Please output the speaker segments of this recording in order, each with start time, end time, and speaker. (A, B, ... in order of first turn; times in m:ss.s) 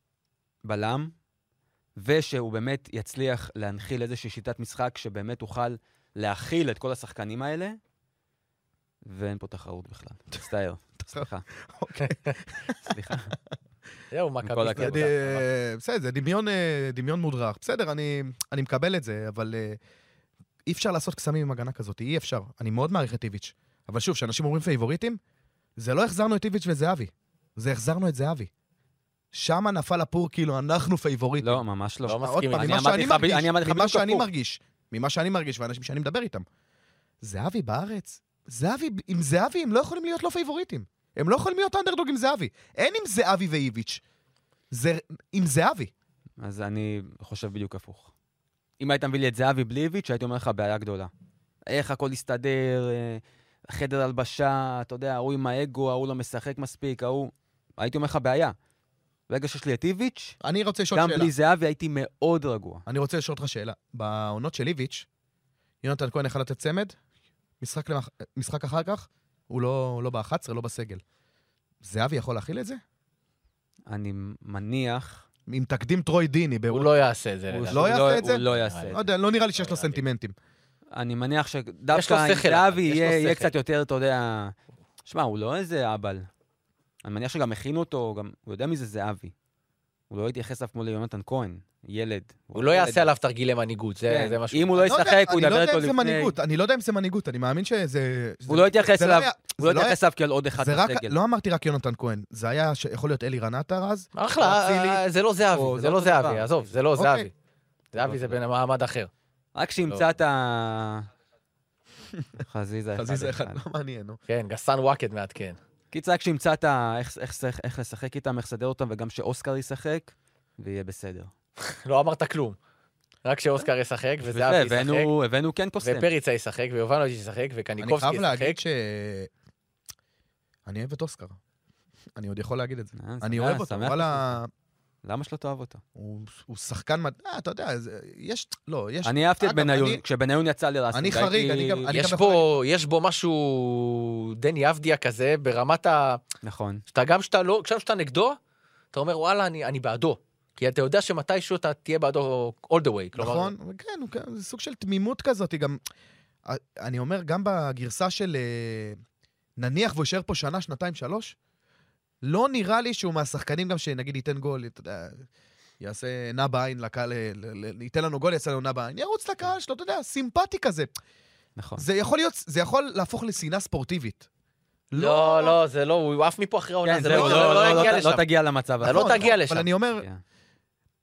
0:00.6-0:01.1 A
0:02.0-0:07.8 A
0:09.1-0:11.4 A
0:11.1-0:13.0 B
0:12.1-0:12.4 C
0:12.9-0:13.3 A
0:14.1-0:15.4 C
0:14.4-0:15.2 A
0:14.8-0:19.8 B
0:20.7-0:25.2 B
0:25.8-0:28.5 B
0:29.3-0:31.6 B
0:31.4-0:34.3 A
0:32.1-0:33.3 C
0:32.2-0:36.4 B
0:37.2-0:44.0 B
0:44.7-0:45.9 B
0:46.4-0:48.1 A
0:48.8-0:51.1 A
0:51.7-0:58.6 A
0:59.3-1:00.4 A
1:00.4-1:01.3 B
1:00.9-1:02.8 A
1:02.9-1:05.1 B
1:05.8-1:07.0 B
1:07.6-1:11.0 B
1:11.8-1:12.8 B
1:13.9-1:15.2 A
1:15.5-1:16.9 B
1:16.7-1:19.0 C
1:17.5-1:19.0 A
1:17.7-1:20.4 B
1:19.6-1:20.0 C
1:20.9-1:24.6 A
1:21.9-1:23.5 C
1:25.1-1:26.3 A
1:27.0-1:29.3 A
1:30.1-1:33.1 A
1:32.5-1:34.9 C
1:34.1-1:36.3 A
1:34.8-1:40.0 B
1:38.5-1:41.2 A
1:40.6-1:45.0 B
1:44.2-1:47.3 C
1:45.5-1:46.5 A
1:47.0-1:47.3 B
1:47.9-1:49.1 C
1:48.0-1:48.4 A
1:49.6-1:51.1 A
1:52.4-1:53.6 A
1:53.0-1:54.2 B
1:54.3-1:55.6 C
1:55.9-2:01.3 A
2:01.7-2:02.6 C
2:03.2-2:05.1 C
2:04.3-2:06.1 A
2:05.8-2:08.6 C
2:07.8-2:09.3 B
2:10.7-2:11.4 B
2:12.2-2:14.5 B
2:13.0-2:14.4 A
2:15.0-2:15.8 A
2:16.0-2:20.0 B
2:19.0-2:22.0 A
2:20.9-2:22.5 B
2:21.9-2:26.2 C
2:26.4-2:26.8 A
2:26.9-2:28.4 C
2:28.9-2:33.5 C
2:33.2-2:35.8 B
2:36.5-2:39.0 B
2:39.6-2:41.4 B
2:42.2-2:45.3 B
2:45.8-2:50.9 B
2:51.6-2:51.8 A
2:51.8-2:54.3 B
2:54.9-2:55.6 B
2:55.0-2:58.2 C
2:56.8-2:59.4 A
2:57.1-2:58.0 B
2:58.8-2:59.7 C
2:58.8-3:00.1 B
2:59.9-3:00.2 A